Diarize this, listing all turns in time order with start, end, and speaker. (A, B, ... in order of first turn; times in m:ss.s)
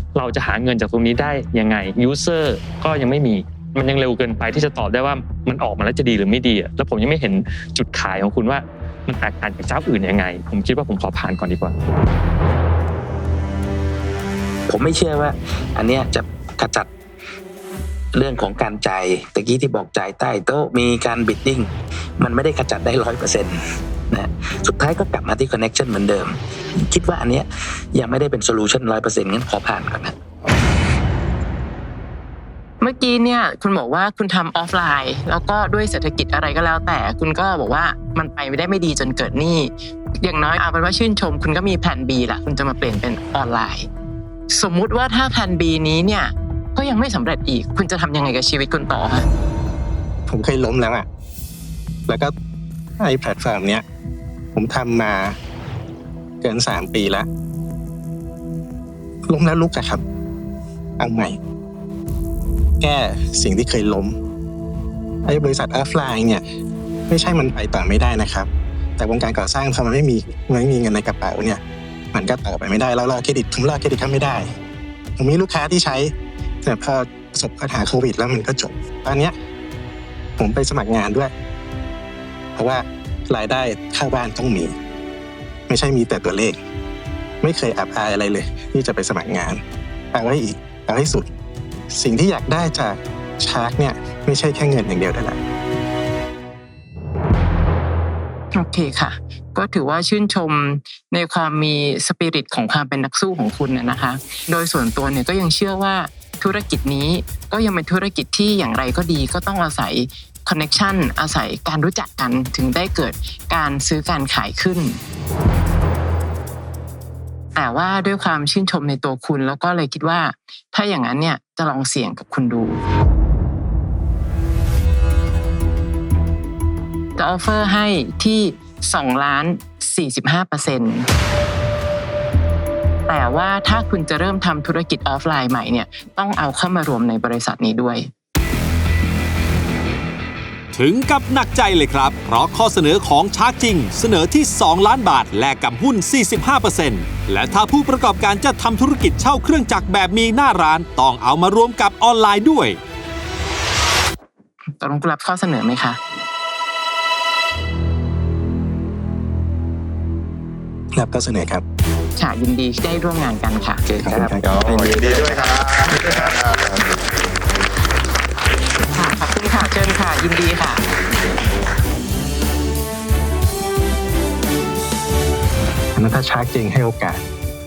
0:00.1-0:11.8 A
0:14.7-0:16.9 B
0:18.1-0:23.6 B
0:24.1-0:30.2 B
0:32.8-0:43.9 C
0:44.5-0:49.3 C
0:50.3-0:51.0 D
0:52.1-0:52.3 D
0:53.0-0:53.8 D
0:54.5-0:55.4 D
0:56.4-0:57.3 D
0:59.3-1:00.0 D
1:01.0-1:01.4 D
1:02.8-1:04.2 D
1:05.2-1:06.4 D
1:07.1-1:11.6 D
1:12.1-1:14.5 D
1:15.2-1:16.1 D
1:16.6-1:19.3 D
1:20.4-1:21.3 D
1:22.6-1:24.7 D
1:25.7-1:26.6 D
1:27.4-1:29.6 D
1:30.1-1:31.3 D
1:31.9-1:35.4 D
1:38.5-1:55.0 C
1:57.5-2:02.8 C
2:07.2-2:11.1 C
2:13.1-2:18.1 C
2:20.7-2:32.8 E
2:34.8-2:36.0 C
2:40.9-2:41.6 D
2:42.2-2:43.8 C
2:43.8-2:45.8 B
2:44.0-2:44.5 D
2:44.4-2:46.9 F
2:48.9-2:50.8 C
2:55.9-2:57.2 D